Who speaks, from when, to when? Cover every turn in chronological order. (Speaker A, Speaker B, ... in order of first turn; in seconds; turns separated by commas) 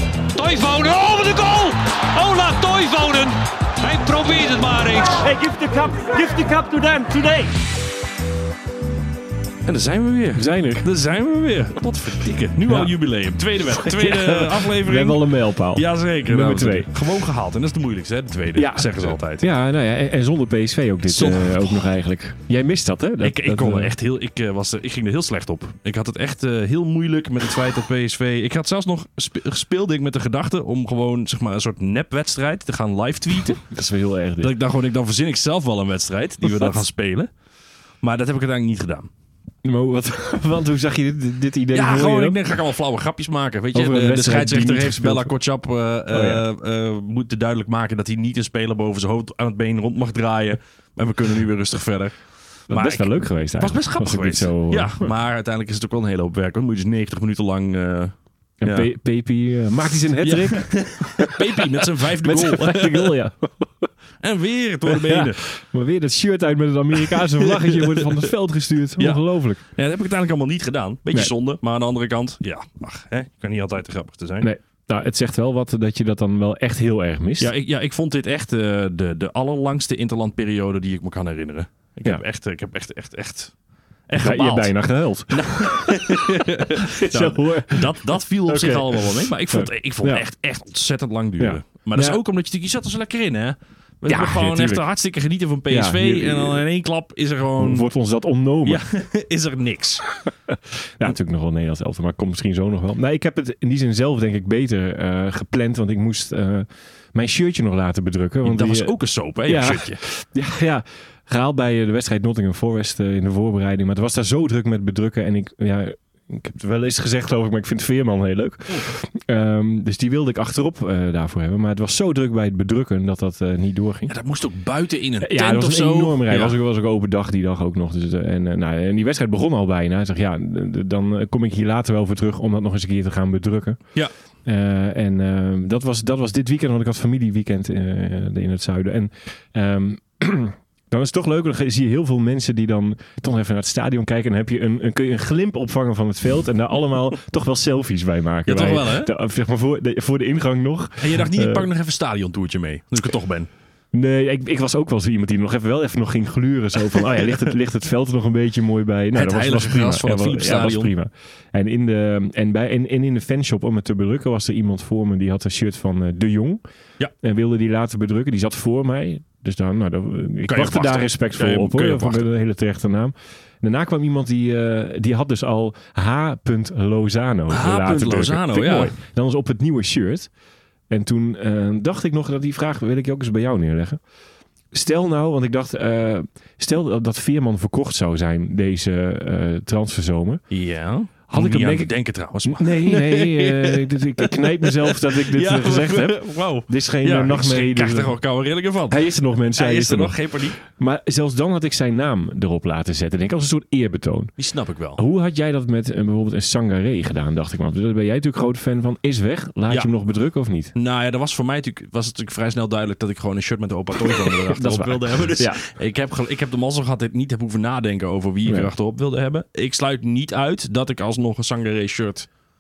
Speaker A: 0.3-5.3, Speaker B: 5.2-7.5, Speaker C: 9.7-19.5, Speaker D: 10.3-10.9, Speaker D: 12.7-12.9, Speaker D: 13.7-16.9, Speaker D: 18.6-23.9, Speaker C: 21.1-21.8, Speaker C: 23.2-33.6, Speaker D: 33.5-34.5, Speaker C: 34.4-37.3, Speaker D: 36.4-36.7, Speaker C: 38.0-39.1, Speaker D: 39.6-42.4, Speaker C: 41.7-52.2, Speaker D: 43.7-45.3, Speaker D: 46.1-46.4, Speaker D: 52.7-55.1, Speaker C: 52.7-58.9, Speaker D: 58.6-63.9, Speaker C: 60.2-63.1, Speaker C: 64.2-65.4, Speaker D: 64.9-69.6, Speaker C: 67.4-68.1, Speaker C: 69.0-74.5, Speaker D: 74.4-77.5, Speaker C: 77.4-83.5, Speaker C: 84.1-84.7, Speaker D: 84.2-90.3, Speaker C: 85.3-97.9, Speaker D: 91.4-92.2, Speaker D: 94.1-94.8, Speaker D: 95.7-96.7, Speaker D: 97.6-98.8, Speaker C: 98.7-100.1, Speaker D: 100.5-108.9, Speaker C: 108.4-110.0, Speaker D: 109.5-124.1, Speaker C: 124.1-126.6, Speaker D: 125.2-133.8, Speaker D: 134.4-151.7, Speaker C: 148.5-149.1, Speaker C: 151.0-153.5, Speaker D: 153.9-166.6, Speaker C: 159.1-160.9, Speaker D: 167.2-180.3, Speaker C: 170.5-172.3, Speaker C: 177.5-179.0, Speaker D: 180.9-184.0, Speaker D: 184.7-190.4, Speaker C: 190.5-199.0, Speaker D: 191.3-191.9, Speaker D: 192.4-198.2, Speaker D: 198.9-204.3, Speaker C: 199.6-200.6, Speaker C: 204.4-205.0, Speaker D: 205.0-210.7, Speaker C: 210.8-222.3, Speaker D: 214.1-215.6, Speaker D: 218.5-218.7